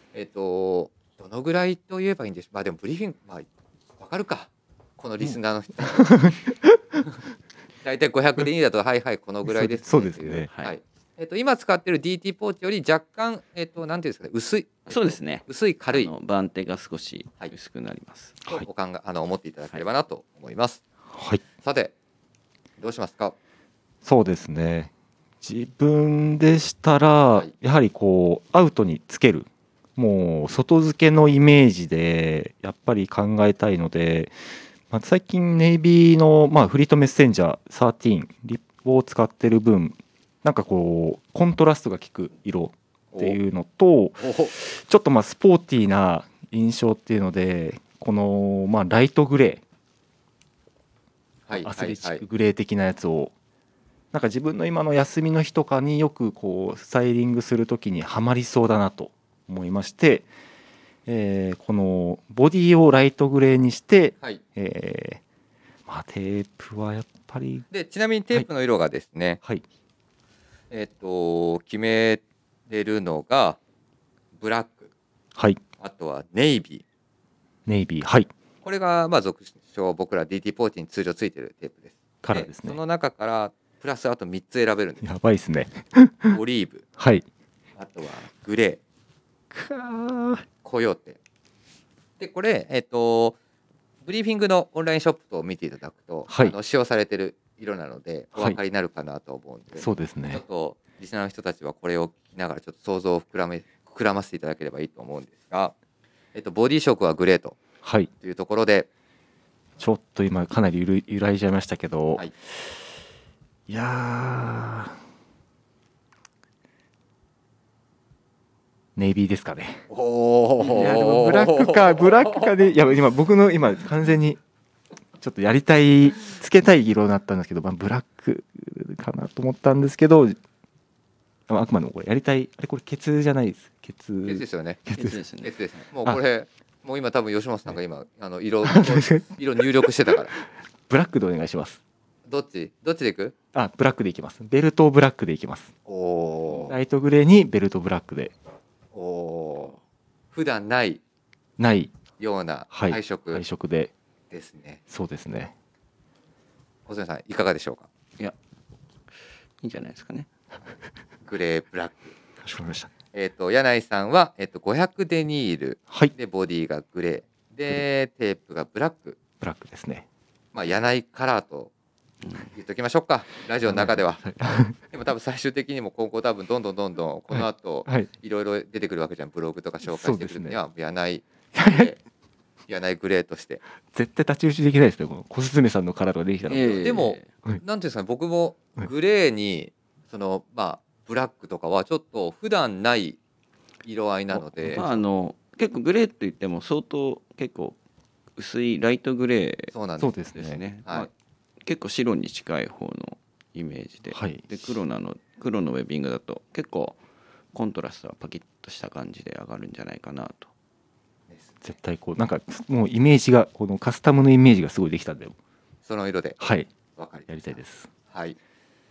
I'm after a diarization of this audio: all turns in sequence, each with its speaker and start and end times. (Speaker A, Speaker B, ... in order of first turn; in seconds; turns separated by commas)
Speaker A: 0.1-3.5, Speaker A: 4.0-6.2, Speaker B: 5.8-7.0, Speaker A: 7.8-16.1, Speaker B: 9.4-10.5, Speaker C: 14.9-18.4, Speaker A: 18.5-20.8, Speaker B: 21.1-21.4, Speaker A: 21.6-21.9, Speaker A: 22.8-23.4, Speaker B: 24.0-24.9, Speaker B: 25.4-34.4, Speaker B: 34.9-49.6, Speaker A: 43.1-43.4, Speaker A: 44.2-44.5, Speaker A: 51.5-52.2, Speaker B: 51.6-53.3, Speaker B: 54.1-60.3, Speaker B: 61.1-65.2, Speaker B: 65.9-67.7, Speaker A: 67.7-69.4, Speaker A: 70.7-73.6, Speaker A: 74.4-74.9, Speaker A: 75.8-76.8, Speaker B: 77.7-78.3, Speaker A: 78.6-85.1, Speaker B: 82.2-82.8, Speaker B: 85.0-86.4, Speaker A: 86.3-86.8, Speaker B: 87.0-87.2, Speaker A: 87.8-88.8, Speaker B: 89.5-90.5, Speaker A: 90.6-91.2, Speaker A: 92.2-93.4, Speaker A: 94.0-105.7, Speaker B: 96.3-96.5, Speaker B: 99.8-100.4, Speaker A: 106.3-107.6, Speaker B: 107.8-108.1, Speaker A: 108.2-108.9, Speaker B: 109.8-112.8, Speaker B: 113.7-115.0, Speaker B: 119.0-119.8, Speaker A: 119.9-122.5, Speaker B: 120.7-124.4, Speaker B: 125.2-130.4, Speaker B: 131.5-135.2, Speaker A: 134.3-134.8, Speaker C: 134.9-135.9, Speaker A: 135.4-140.3, Speaker B: 138.7-139.9, Speaker B: 140.9-141.8, Speaker A: 142.3-143.3, Speaker B: 143.5-145.7, Speaker A: 145.9-146.8, Speaker B: 146.6-148.3, Speaker A: 148.9-149.8, Speaker A: 150.3-151.0, Speaker B: 151.6-151.9, Speaker A: 152.2-153.4, Speaker B: 152.7-153.9, Speaker A: 154.3-154.8, Speaker B: 154.9-155.5, Speaker A: 156.9-157.9, Speaker C: 159.6-160.3, Speaker A: 161.3-162.2, Speaker B: 162.4-162.9, Speaker A: 163.1-169.2, Speaker B: 169.4-170.1, Speaker A: 170.5-171.7, Speaker C: 172.2-172.5, Speaker A: 172.5-174.2, Speaker B: 173.7-174.8, Speaker A: 174.9-182.0, Speaker B: 177.3-178.1, Speaker B: 179.8-180.6, Speaker B: 181.5-181.9, Speaker A: 182.7-183.6, Speaker B: 183.9-187.6, Speaker C: 186.5-187.3, Speaker A: 186.7-193.2, Speaker A: 193.8-194.8, Speaker B: 194.3-195.0, Speaker C: 194.7-197.8, Speaker C: 198.4-199.7, Speaker A: 199.7-200.1, Speaker B: 200.0-200.6, Speaker C: 200.3-201.1, Speaker C: 201.6-207.0, Speaker B: 204.1-204.5, Speaker C: 207.5-210.5, Speaker A: 211.3-211.6, Speaker B: 211.6-215.4, Speaker A: 215.9-216.4, Speaker B: 216.4-216.7, Speaker A: 216.9-217.6, Speaker B: 217.3-217.9, Speaker A: 218.1-218.4